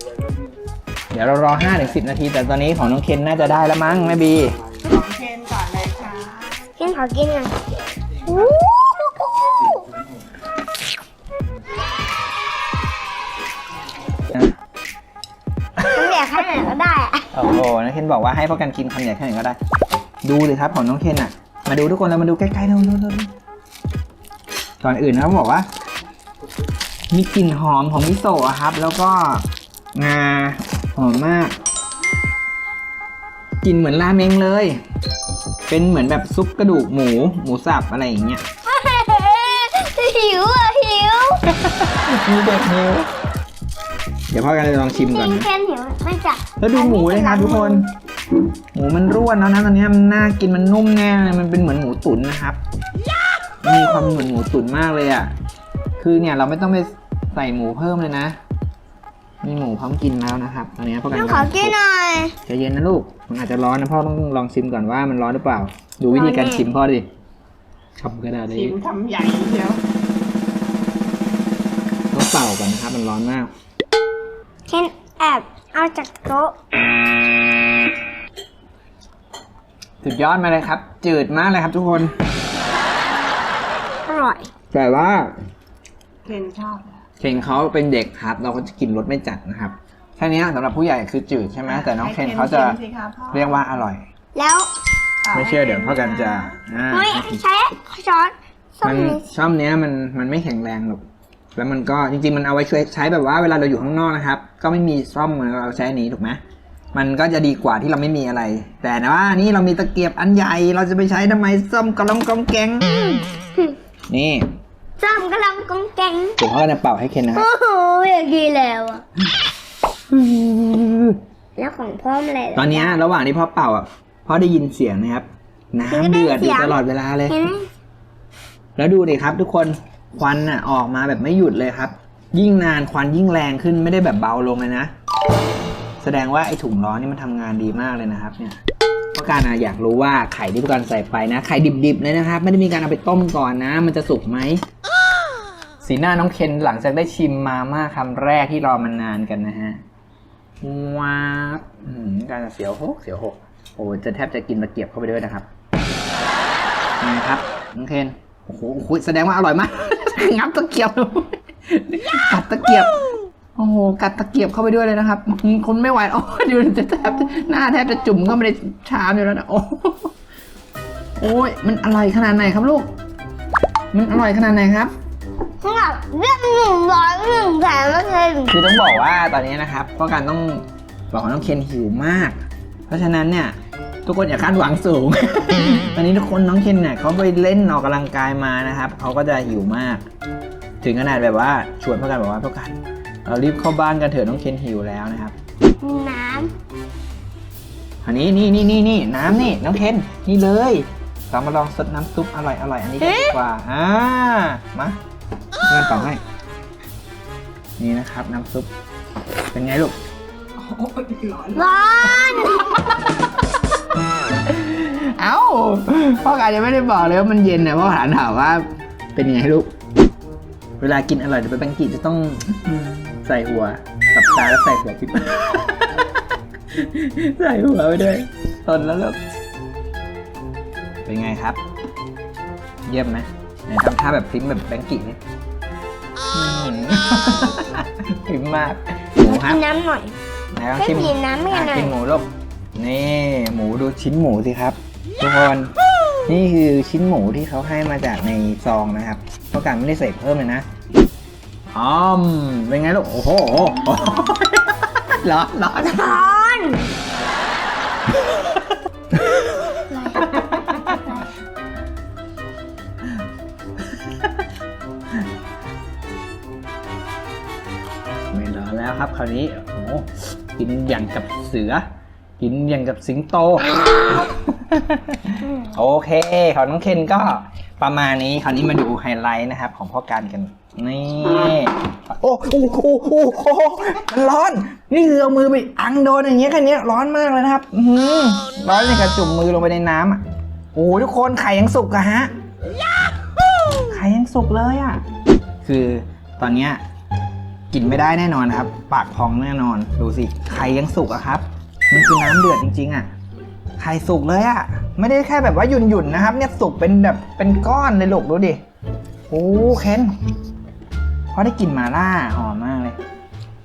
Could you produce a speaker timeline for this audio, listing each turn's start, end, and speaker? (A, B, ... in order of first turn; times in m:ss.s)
0:01.1-0:04.6 A
0:04.8-0:06.6 B
0:06.8-0:07.6 C
0:08.2-0:09.9 C
0:15.8-0:16.4 A
0:15.9-0:17.3 C
0:17.3-0:19.6 A
0:20.2-0:23.3 A
0:24.8-0:25.7 A
0:27.1-0:31.5 A
0:33.6-0:34.8 A
0:35.7-0:38.4 A
0:38.7-0:41.4 C
0:41.5-0:43.1 A
0:44.3-0:45.5 A
0:44.9-0:47.9 C
0:46.6-0:47.9 A
0:48.7-0:52.6 A
0:53.6-0:55.3 A
0:56.0-0:58.4 A
0:59.4-1:01.8 A
1:01.1-1:02.4 C
1:02.4-1:07.1 A
1:06.1-1:06.7 C
1:08.0-1:08.8 A
1:08.5-1:09.8 B
1:12.1-1:13.5 A
1:14.7-1:16.6 C
1:20.0-1:22.1 A
1:24.1-1:24.5 C
1:24.7-1:25.3 A
1:26.3-1:26.9 B
1:27.2-1:34.0 A
1:31.7-1:33.5 B
1:34.4-1:34.7 C
1:35.3-1:36.5 B
1:35.3-1:37.4 A
1:36.9-1:39.2 C
1:38.8-1:41.0 A
1:41.6-1:46.4 A
1:46.9-1:53.1 A
1:54.1-1:54.5 A
1:55.0-1:56.4 C
1:56.4-1:57.5 A
1:57.3-1:59.0 C
2:00.1-2:01.2 A
2:01.6-2:03.0 C
2:02.6-2:07.4 A
2:05.9-2:06.8 C
2:07.3-2:07.7 C
2:08.8-2:14.9 A
2:16.0-2:18.6 A
2:19.2-2:24.6 A
2:25.8-2:29.8 A
2:30.6-2:35.5 A
2:37.0-2:42.9 A
2:43.6-2:50.1 A
2:51.2-2:52.9 A
2:53.9-2:54.9 A
2:55.6-2:58.6 C
2:58.5-3:02.4 A
3:02.9-3:03.6 A
3:04.1-3:10.0 A
3:10.8-3:15.4 A
3:15.8-3:16.5 C
3:18.0-3:25.0 A
3:23.0-3:23.4 C
3:25.7-3:26.2 A
3:27.8-3:28.7 A
3:29.5-3:30.0 A
3:31.5-3:33.0 C
3:34.5-3:38.6 A
3:39.2-3:39.7 A
3:40.8-3:46.1 A
3:46.7-3:49.2 A
3:51.0-3:51.6 A
3:52.9-3:55.2 A
3:56.3-3:59.6 A
3:59.2-4:00.2 C
4:00.6-4:05.7 A
4:00.8-4:01.9 C
4:06.3-4:10.6 A
4:11.7-4:16.2 A
4:15.8-4:16.9 C
4:19.1-4:19.8 A
4:19.8-4:21.1 C
4:20.3-4:20.8 A
4:28.3-4:31.8 A
4:32.4-4:50.2 A
4:50.7-4:52.3 A
4:53.9-4:55.0 A
4:55.6-4:56.8 A
4:57.7-5:03.1 A
5:03.8-5:08.6 A
5:09.3-5:10.1 A
5:11.3-5:13.0 A